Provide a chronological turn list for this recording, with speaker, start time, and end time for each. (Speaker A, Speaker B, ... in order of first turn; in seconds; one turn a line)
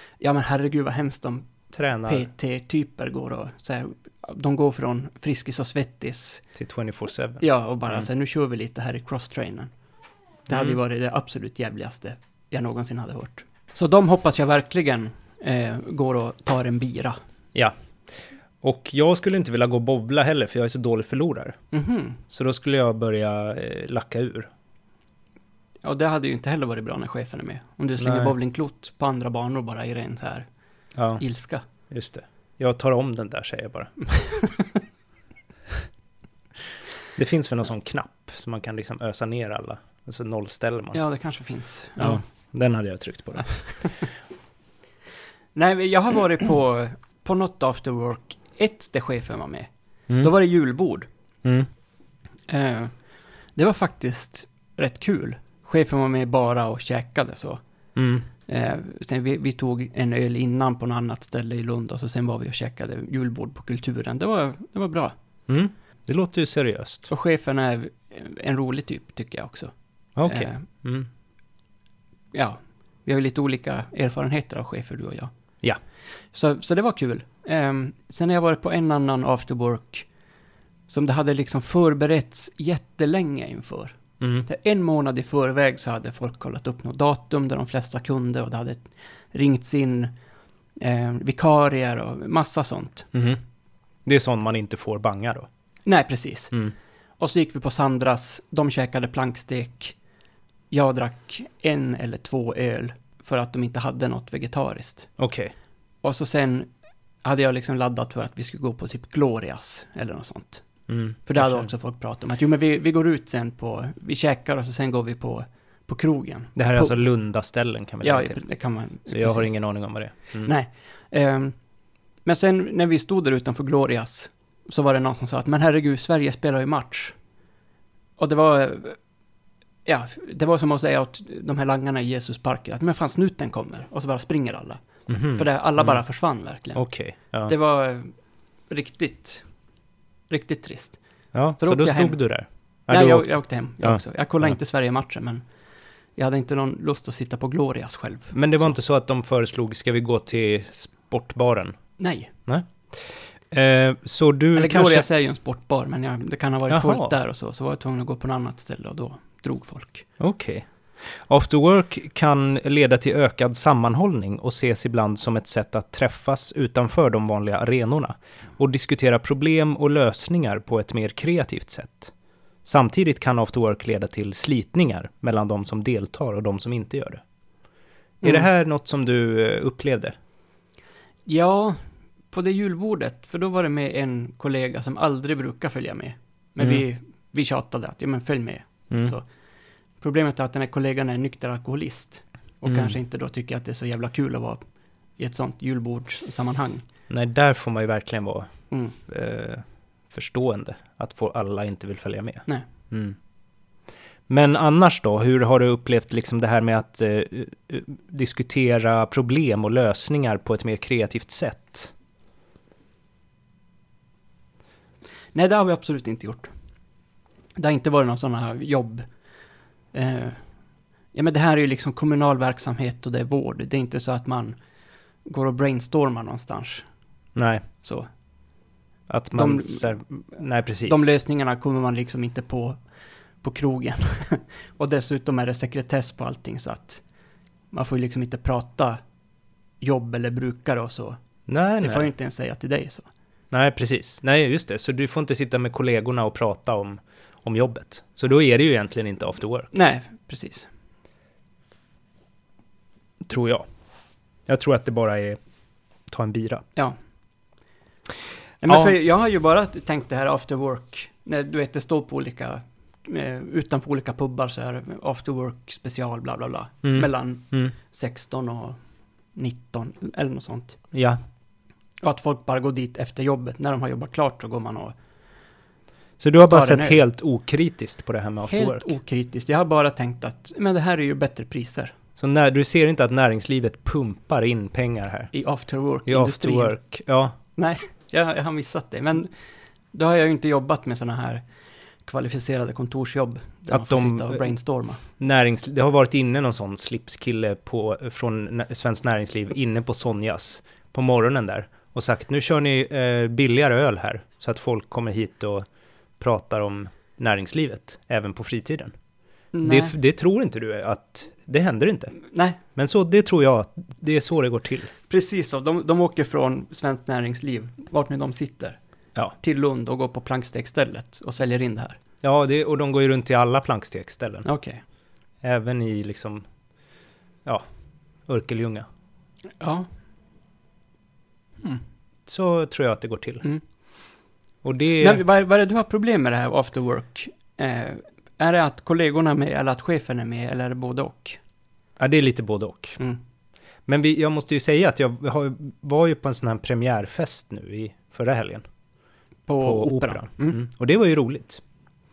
Speaker A: 0.2-1.5
Speaker B: 1.7-2.3
Speaker A: 2.1-6.4
Speaker B: 6.5-8.1
Speaker A: 7.4-9.7
Speaker A: 10.5-17.2
Speaker B: 10.5-10.8
Speaker B: 18.6-21.6
Speaker A: 21.7-22.2
Speaker B: 22.3-24.5
Speaker A: 25.8-30.4
Speaker B: 28.0-28.3
Speaker B: 30.9-31.2
Speaker A: 31.2-31.6
Speaker B: 31.9-33.9
Speaker B: 37.1-41.0
Speaker A: 40.9-42.2
Speaker B: 42.0-43.9
Speaker A: 45.5-51.1
Speaker A: 52.5-52.9
Speaker A: 53.5-57.6
Speaker B: 58.0-58.3
Speaker A: 58.5-65.1
Speaker B: 65.5-67.1
Speaker A: 67.1-69.7
Speaker B: 70.2-71.1
Speaker A: 70.2-70.6
Speaker A: 72.3-75.3
Speaker A: 76.3-80.1
Speaker A: 80.9-90.1
Speaker B: 84.2-84.5
Speaker A: 90.8-93.1
Speaker B: 93.1-93.4
Speaker B: 94.0-95.5
Speaker A: 95.8-96.5
Speaker A: 97.2-99.9
Speaker A: 100.7-105.1
Speaker B: 105.2-105.5
Speaker A: 106.0-106.7
Speaker A: 107.2-110.7
Speaker B: 110.9-111.7
Speaker A: 111.2-117.0
Speaker B: 116.5-118.4
Speaker A: 118.0-119.5
Speaker B: 119.1-120.5
Speaker A: 120.4-121.5
Speaker A: 122.2-127.1
Speaker A: 128.2-129.0
Speaker A: 129.8-134.8
Speaker B: 135.1-136.0
Speaker A: 135.3-136.8
Speaker B: 136.7-137.5
Speaker A: 137.4-138.1
Speaker A: 138.7-139.4
Speaker A: 140.3-141.0
Speaker B: 141.3-144.5
Speaker A: 141.6-142.2
Speaker A: 142.9-145.4
Speaker A: 146.2-148.7
Speaker B: 148.3-151.8
Speaker A: 152.0-152.3
Speaker B: 152.4-155.1
Speaker A: 154.5-160.1
Speaker B: 156.7-157.1
Speaker B: 160.2-172.1
Speaker B: 172.6-177.2
Speaker A: 178.2-178.5
Speaker B: 178.2-180.1
Speaker A: 181.2-181.8
Speaker A: 182.3-189.2
Speaker A: 190.0-194.6
Speaker B: 192.6-192.9
Speaker A: 195.2-196.8
Speaker B: 197.1-198.5
Speaker A: 198.7-198.9
Speaker B: 199.1-203.2
Speaker B: 204.3-211.9
Speaker A: 215.3-216.5
Speaker A: 217.6-219.1
Speaker A: 219.9-220.4
Speaker A: 221.1-224.6
Speaker A: 225.2-226.8
Speaker B: 227.3-227.6
Speaker A: 227.8-228.1
Speaker B: 229.1-231.2
Speaker A: 229.3-230.0
Speaker A: 230.8-232.8
Speaker A: 233.4-237.0
Speaker A: 237.7-239.0
Speaker A: 239.8-241.2
Speaker B: 241.5-242.1
Speaker A: 241.8-243.1
Speaker B: 243.5-249.7
Speaker A: 249.7-250.7
Speaker B: 253.2-253.7
Speaker B: 254.5-255.4
Speaker B: 256.1-256.6
Speaker A: 258.6-268.8
Speaker B: 258.7-258.9
Speaker B: 266.8-267.7
Speaker A: 269.3-270.8
Speaker B: 270.9-271.2
Speaker A: 272.0-274.9
Speaker B: 276.2-278.9
Speaker A: 276.4-277.0
Speaker A: 278.5-281.9
Speaker B: 282.2-285.3
Speaker A: 285.3-286.8
Speaker B: 286.1-287.4
Speaker A: 287.6-289.3
Speaker A: 289.9-291.4
Speaker A: 292.0-295.0
Speaker B: 293.7-294.5
Speaker B: 295.2-305.6
Speaker B: 306.2-308.9
Speaker A: 309.5-309.9
Speaker B: 309.6-312.2
Speaker A: 312.3-312.6
Speaker B: 312.8-314.9
Speaker A: 315.1-318.8
Speaker A: 319.3-322.0
Speaker B: 322.2-324.5
Speaker A: 324.4-324.8
Speaker B: 325.4-326.4
Speaker B: 328.3-328.9
Speaker A: 329.6-329.9
Speaker B: 332.3-333.4
Speaker B: 334.6-335.2
Speaker A: 335.0-341.4
Speaker B: 342.0-343.0
Speaker B: 343.9-348.6
Speaker A: 349.5-350.6
Speaker B: 349.6-351.6